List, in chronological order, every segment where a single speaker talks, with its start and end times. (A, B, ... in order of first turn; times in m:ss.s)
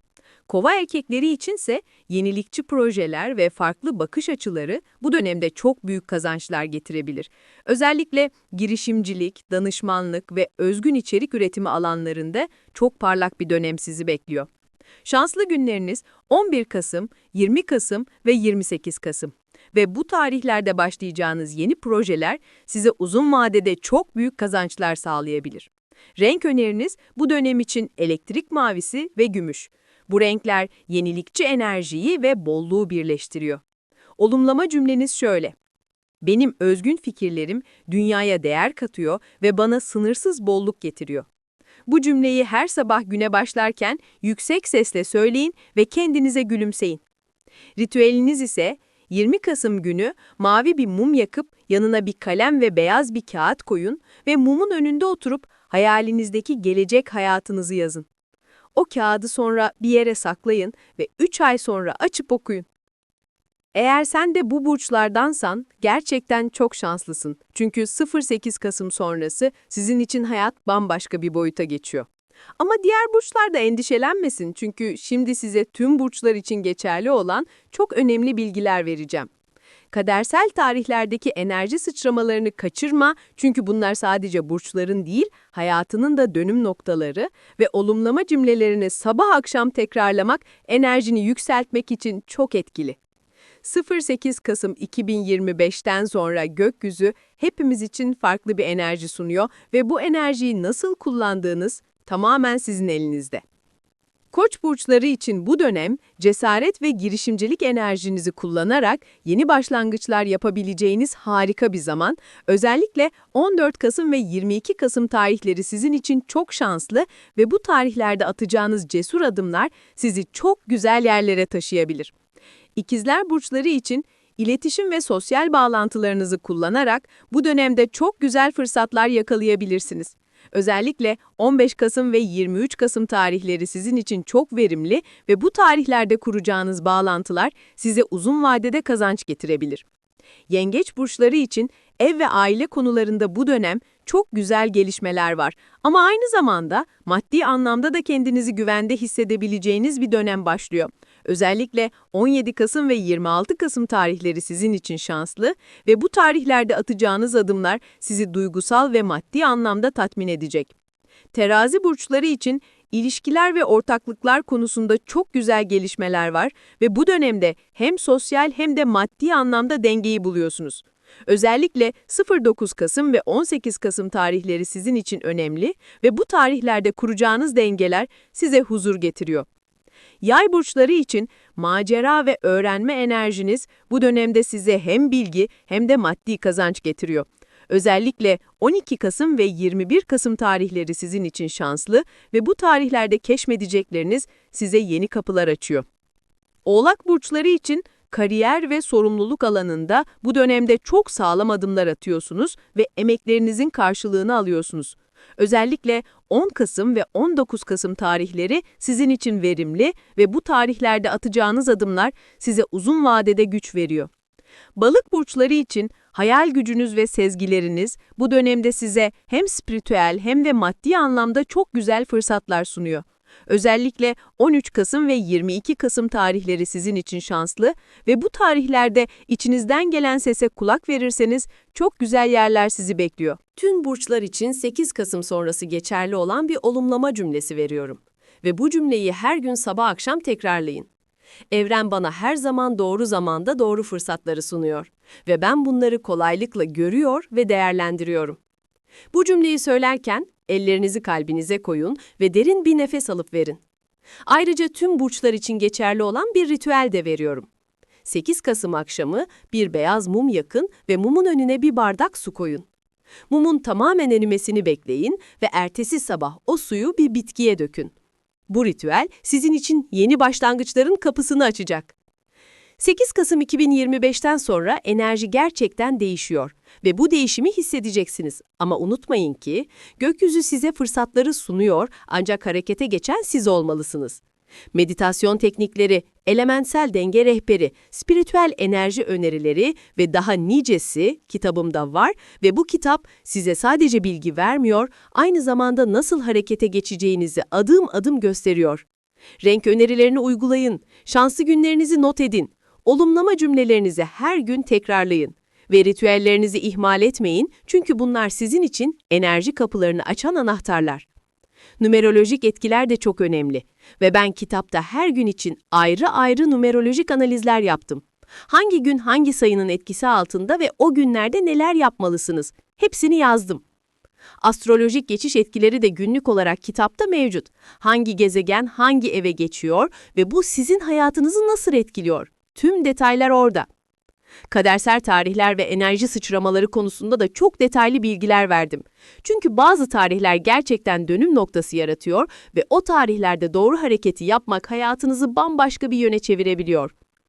0:00.5-0:14.5 A
0:15.0-0:33.6 A
0:34.2-0:35.5 A
0:36.2-0:41.2 A
0:41.9-0:47.0 A
0:47.8-0:58.0 A
0:58.7-1:02.7 A
1:03.7-1:12.1 A
1:12.6-1:19.3 A
1:19.9-1:33.0 A
1:33.6-1:43.4 A
1:44.3-2:02.1 A
2:02.8-2:19.8 A
2:20.5-2:40.7 A
2:41.3-2:59.5 A
3:00.2-3:15.8 A
3:16.6-3:34.1 A
3:34.8-4:00.9 A
4:01.5-4:08.4 A
4:09.1-4:13.6 A
4:14.3-4:17.5 A
4:18.0-4:22.7 A
4:23.3-4:27.9 A
4:28.5-4:31.9 A
4:32.8-4:44.2 A
4:44.7-4:58.8 A
4:59.4-5:11.0 A
5:11.8-5:23.6 A
5:24.4-5:33.7 A
5:34.5-5:46.9 A